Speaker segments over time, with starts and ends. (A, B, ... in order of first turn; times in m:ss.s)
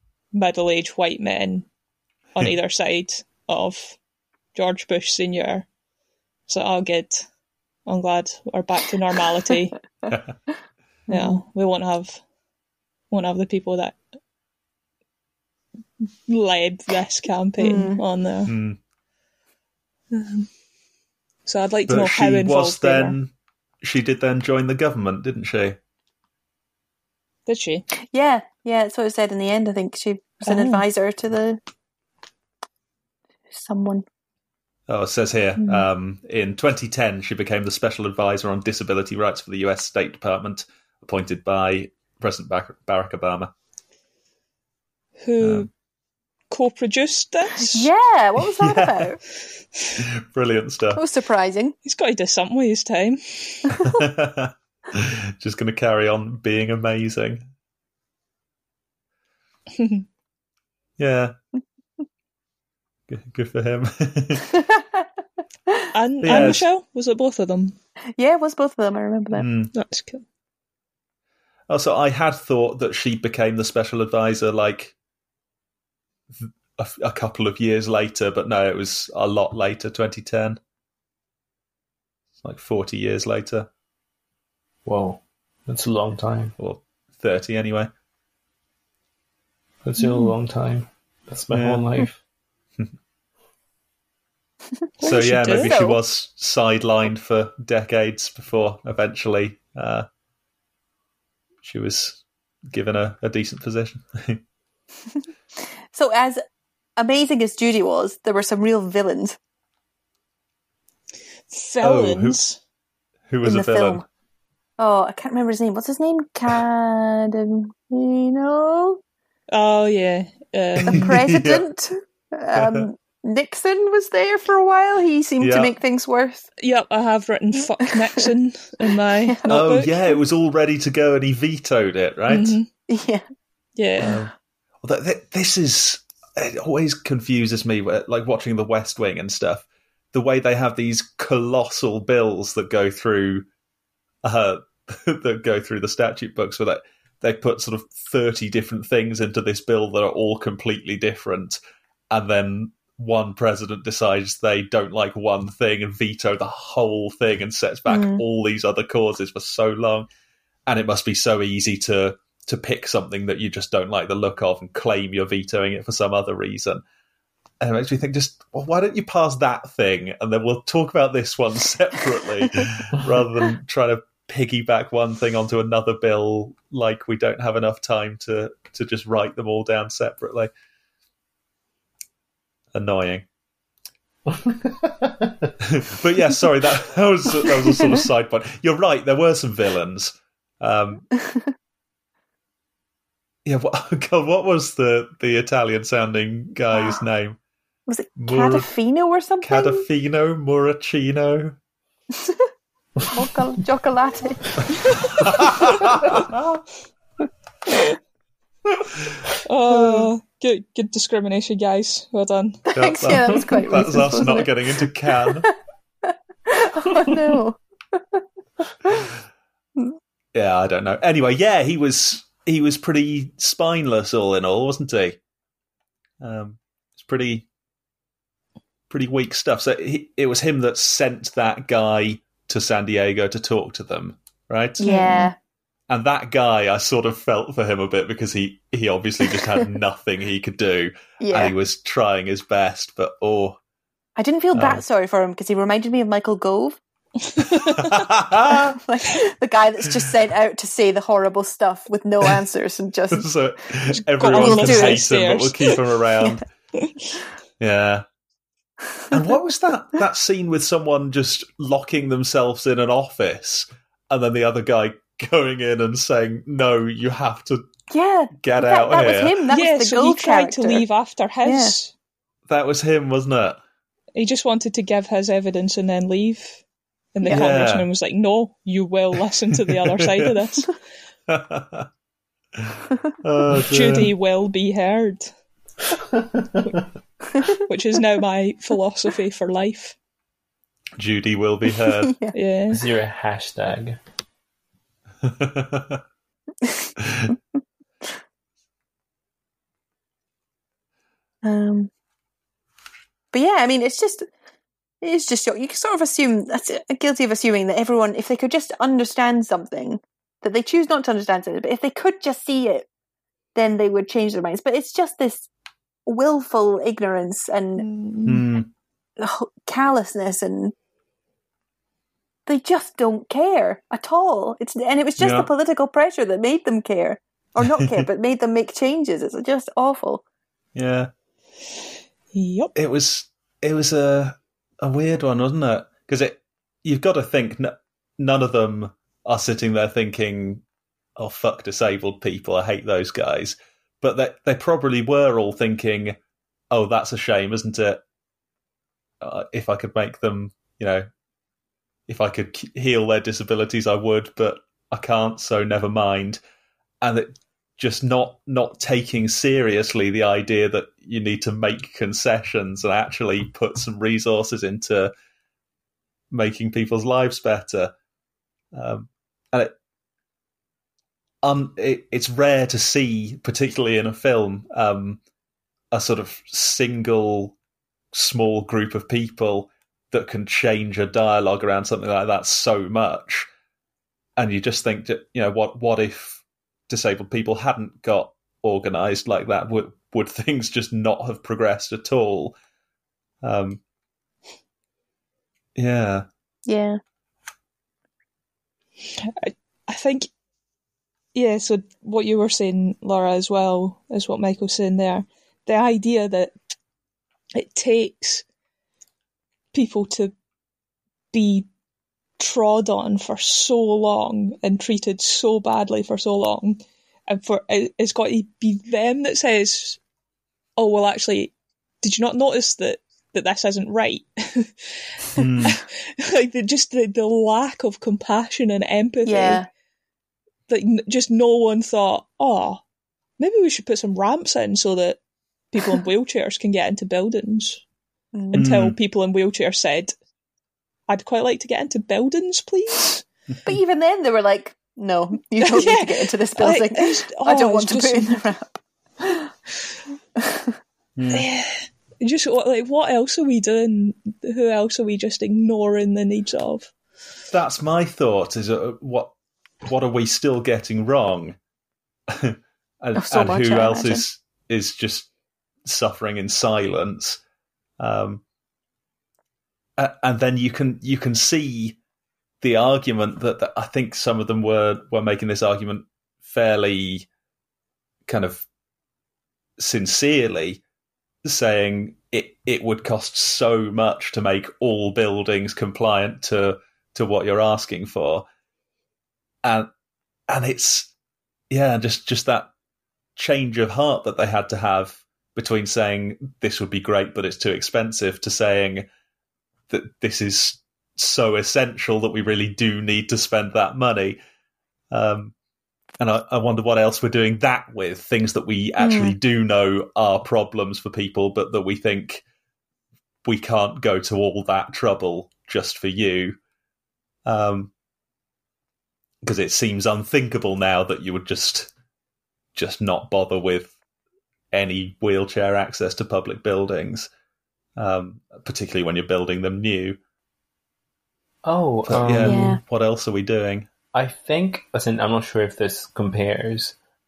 0:00.3-0:01.7 A
0:02.4-0:04.0 A
0:04.6-0:05.7 A
0:06.5-0:07.3 A
0:07.9-0:09.8 A
0:10.1-0:10.3 B
0:11.1-0:11.4 C
0:11.1-0:12.2 A
0:13.1-0:14.0 A
0:16.0-0:18.6 A
0:17.6-0:18.0 C
0:18.5-0:18.8 B
0:20.1-0:20.5 A
0:21.5-0:23.2 A
0:21.9-0:23.3 B
0:23.8-0:25.8 B
0:27.5-0:27.9 A
0:28.1-0:31.6 C
0:30.4-0:30.8 A
0:33.5-0:34.0 C
0:34.9-0:43.5 B
0:45.2-0:45.7 A
0:45.4-0:45.7 B
0:46.5-0:47.9 A
0:47.6-0:49.2 C
0:48.6-0:49.0 B
0:50.0-0:51.0 B
0:51.0-0:51.8 C
0:51.8-0:53.8 A
0:53.8-0:57.5 B
0:59.7-1:00.1 A
1:01.0-1:01.4 B
1:03.1-1:04.4 B
1:05.9-1:07.8 A
1:06.2-1:06.6 B
1:08.2-1:09.4 C
1:09.4-1:09.7 B
1:09.7-1:10.2 A
1:11.7-1:15.0 B
1:16.4-1:20.6 B
1:22.4-1:23.7 B
1:24.8-1:26.6 D
1:26.6-1:27.9 B
1:29.8-1:32.2 D
1:30.0-1:30.3 A
1:31.5-1:31.9 B
1:35.0-1:35.8 A
1:35.0-1:40.1 B
1:35.6-1:36.0 C
1:41.6-1:44.4 B
1:45.9-1:46.4 C
1:47.0-1:49.4 C
1:51.5-1:52.6 A
1:51.8-1:52.4 B
1:53.3-1:54.0 B
1:53.4-1:54.0 C
1:54.8-1:59.0 C
1:59.5-2:01.2 A
2:00.8-2:01.6 B
2:00.9-2:06.5 C
2:02.6-2:02.9 B
2:05.4-2:05.8 B
2:06.6-2:10.0 A
2:09.3-2:09.6 C
2:09.5-2:12.6 B
2:12.3-2:12.7 A
2:12.9-2:13.2 C
2:13.8-2:14.2 A
2:14.0-2:14.3 B
2:14.8-2:23.5 B
2:24.2-2:31.6 B
2:32.1-2:40.1 B
2:37.9-2:38.2 C
2:40.7-2:46.8 B
2:47.6-3:00.5 B
3:02.7-3:03.2 B
3:04.3-3:05.5 D
3:05.6-3:11.1 B
3:11.2-3:11.5 C
3:13.4-3:17.4 B
3:17.9-3:19.8 C
3:18.2-3:18.7 B
3:19.4-3:21.6 B
3:23.1-3:24.4 C
3:25.2-3:26.2 B
3:29.4-3:33.1 A
3:29.8-3:30.0 C
3:32.7-3:34.5 C
3:32.8-3:35.5 B
3:36.1-3:38.2 C
3:40.3-3:45.2 B
3:46.2-3:47.5 B
3:48.9-3:55.2 B
3:54.8-3:55.3 C
3:55.9-4:03.6 B
4:01.2-4:01.5 C
4:04.2-4:06.8 C
4:04.5-4:04.8 B
4:07.3-4:08.0 A
4:07.5-4:08.8 B
4:08.5-4:13.3 C
4:13.1-4:16.4 B
4:14.2-4:15.8 A
4:14.2-4:15.0 C
4:17.6-4:18.0 B
4:19.1-4:27.7 B
4:27.9-4:30.8 C
4:28.4-4:29.4 B
4:29.5-4:31.9 A
4:31.4-4:31.8 C
4:32.5-4:33.6 B
4:34.2-4:36.6 A
4:37.1-4:40.8 A
4:37.3-4:37.8 B
4:39.7-4:40.3 B
4:41.3-4:41.9 B
4:42.6-4:44.1 B
4:43.5-4:45.3 A
4:46.2-4:46.8 D
4:47.6-4:50.0 A
4:51.0-4:52.1 B
4:52.3-4:52.9 A
4:52.7-4:54.0 D
4:55.2-4:56.0 B
4:57.0-4:57.4 B
5:01.4-5:01.9 C
5:03.3-5:04.3 C
5:05.0-5:12.9 C
5:13.6-5:15.5 C
5:16.1-5:17.8 C
5:17.8-5:18.4 A
5:18.2-5:18.7 B
5:19.2-5:20.7 C
5:22.5-5:30.2 C
5:25.2-5:25.5 B
5:27.6-5:28.0 B
5:30.8-5:31.1 B
5:32.3-5:32.7 A
5:32.8-5:40.6 B
5:41.2-5:46.2 B
5:46.7-5:48.0 B
5:49.2-5:51.1 B
5:52.1-5:56.4 B
5:57.0-6:05.1 B
6:06.3-6:07.9 B
6:08.7-6:09.7 B
6:11.4-6:15.2 B
6:15.9-6:17.6 B
6:18.1-6:23.5 B
6:24.4-6:32.6 B
6:33.4-6:33.8 B
6:35.8-6:36.3 B
6:36.7-6:37.0 C
6:39.2-6:40.3 A
6:41.3-6:46.6 A
6:47.6-6:48.4 A
6:49.7-6:50.3 A
6:51.3-6:51.7 A
6:52.4-7:00.0 A
7:00.8-7:09.6 A
7:05.4-7:05.8 B
7:09.2-7:09.7 C
7:10.7-7:12.8 A
7:13.4-7:15.2 A
7:15.7-7:17.8 A
7:18.3-7:18.7 C
7:18.5-7:20.2 A
7:18.6-7:19.0 B
7:21.1-7:23.2 A
7:23.6-7:28.7 C
7:25.6-7:28.4 A
7:30.4-7:30.7 C
7:31.2-7:31.5 B
7:31.3-7:36.9 A
7:37.5-7:39.3 B
7:39.8-7:41.6 B
7:42.3-7:45.3 B
7:43.2-7:44.2 C
7:45.8-7:47.4 B
7:48.0-7:48.4 B
7:50.0-7:52.0 B
7:52.6-7:57.3 B
7:58.3-7:58.7 B
7:59.8-8:00.8 B
8:01.4-8:08.5 B
8:09.6-8:09.9 B
8:10.5-8:11.1 B
8:11.7-8:12.7 B
8:13.4-8:19.1 B
8:19.9-8:24.4 B
8:25.1-8:25.5 B
8:26.2-8:32.4 B
8:29.0-8:29.4 C
8:33.4-8:36.6 B
8:37.4-8:37.9 B
8:39.4-8:41.9 B
8:42.8-8:44.0 B
8:44.7-8:47.3 B
8:48.0-8:50.2 B
8:51.6-8:52.7 D
8:52.1-8:53.9 B
8:52.4-8:52.8 C
8:54.1-8:57.0 D